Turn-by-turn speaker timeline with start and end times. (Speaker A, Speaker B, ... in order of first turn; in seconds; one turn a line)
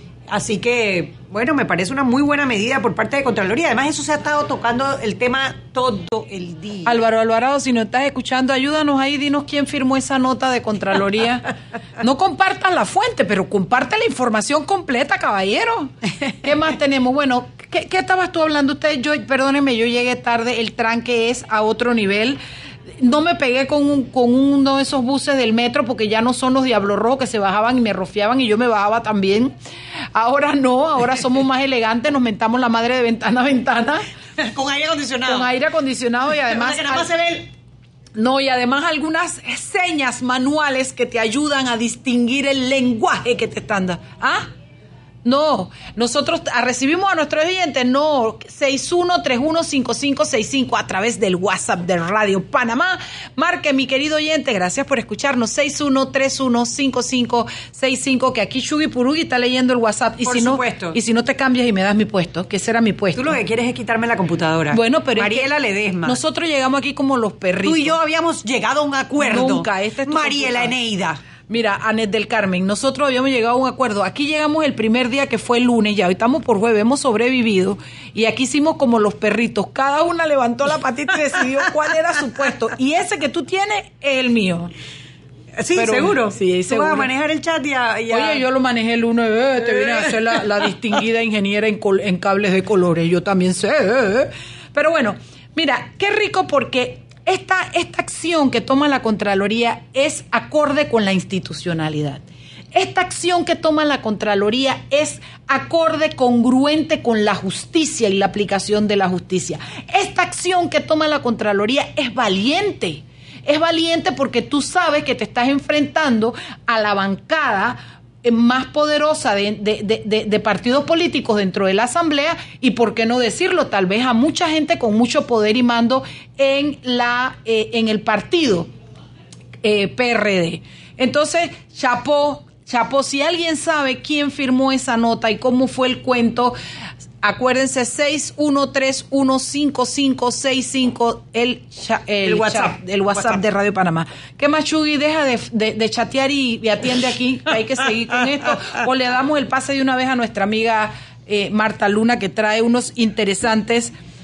Speaker A: 0.3-7.0
Speaker B: 6.8-11.5
Speaker B: 12.0-22.4
Speaker B: 23.0-29.5
Speaker B: 30.1-34.0
Speaker A: 34.4-35.5
Speaker B: 35.2-37.1
Speaker A: 36.5-37.5
Speaker B: 38.1-44.5
Speaker B: 45.2-63.4
Speaker A: 60.2-61.0
Speaker A: 63.1-66.2
Speaker B: 64.7-65.5
Speaker B: 66.0-68.0
Speaker A: 67.6-71.2
Speaker B: 69.2-70.7
Speaker B: 71.5-84.7
Speaker A: 85.6-88.4
Speaker B: 85.7-87.1
Speaker B: 88.1-128.7
Speaker A: 89.8-90.0
Speaker B: 129.6-136.5
Speaker B: 137.2-153.9
Speaker A: 142.2-143.4